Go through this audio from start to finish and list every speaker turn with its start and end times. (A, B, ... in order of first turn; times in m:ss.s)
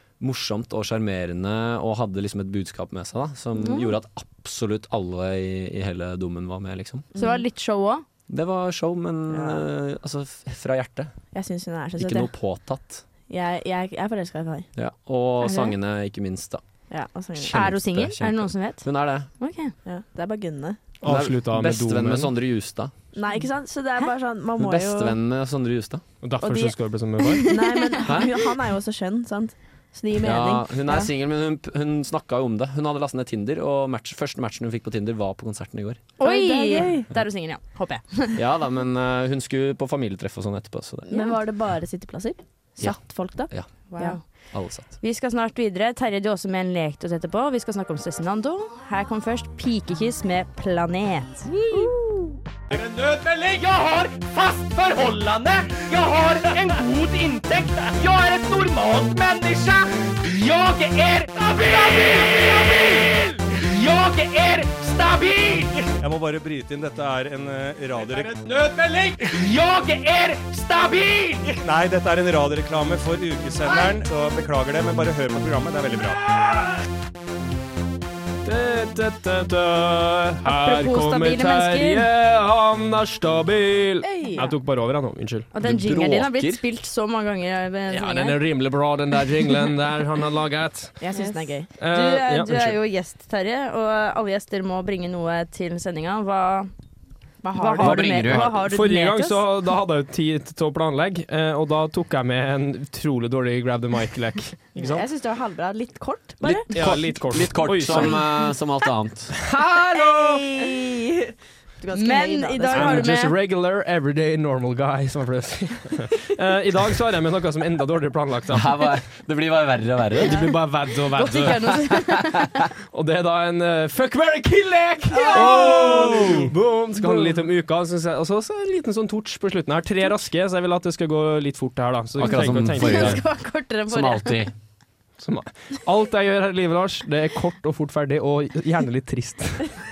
0:00.2-0:07.1 A
0:03.6-0:03.9 B
0:07.1-0:07.4 C
0:07.2-0:08.0 B
0:08.3-0:11.1 A
0:09.3-0:09.6 C
0:11.3-0:12.3 C
0:12.0-0:13.0 A
0:13.3-0:14.7 C
0:14.8-0:16.6 A
0:15.4-0:15.7 B
0:16.9-0:17.6 C
0:17.4-0:19.3 A
0:17.5-0:19.7 B
0:19.8-0:20.8 C
0:21.0-0:22.3 D
0:21.0-0:22.9 A
0:23.1-0:25.2 C
0:24.6-0:26.0 A
0:26.2-0:27.4 D
0:26.4-0:31.1 C
0:27.3-0:27.8 B
0:28.0-0:28.3 A
0:30.2-0:36.0 A
0:36.2-0:38.4 B
0:36.2-0:37.1 C
0:38.4-0:41.2 A
0:41.1-0:44.2 C
0:42.8-0:43.7 A
0:43.9-0:51.9 B
0:44.5-0:44.9 A
0:51.7-0:52.2 C
0:52.7-1:05.9 E
1:06.0-1:08.3 F
1:08.0-1:11.6 E
1:11.6-1:16.2 F
1:18.4-1:25.5 D
1:20.4-1:22.1 B
1:24.0-1:24.6 C
1:25.5-1:28.4 B
1:25.6-1:26.6 A
1:27.9-1:31.0 D
1:31.0-1:31.7 C
1:31.1-1:36.7 B
1:31.8-1:32.8 D
1:37.4-1:38.4 C
1:37.6-1:39.4 B
1:37.8-1:38.6 A
1:38.3-1:45.0 D
1:44.7-1:47.2 C
1:46.4-1:49.3 A
1:46.5-1:48.2 D
1:47.9-1:48.2 C
1:49.4-1:50.4 D
1:49.8-1:53.1 C
1:51.9-1:53.4 B
1:52.7-1:58.9 D
1:58.5-2:00.6 A
2:00.2-2:01.9 D
2:01.1-2:02.5 B
2:02.9-2:13.2 D
2:05.1-2:06.3 C
2:05.1-2:05.8 B
2:05.4-2:06.5 A
2:07.1-2:07.3 C
2:12.2-2:14.5 A
2:12.8-2:14.4 B
2:15.2-2:19.7 D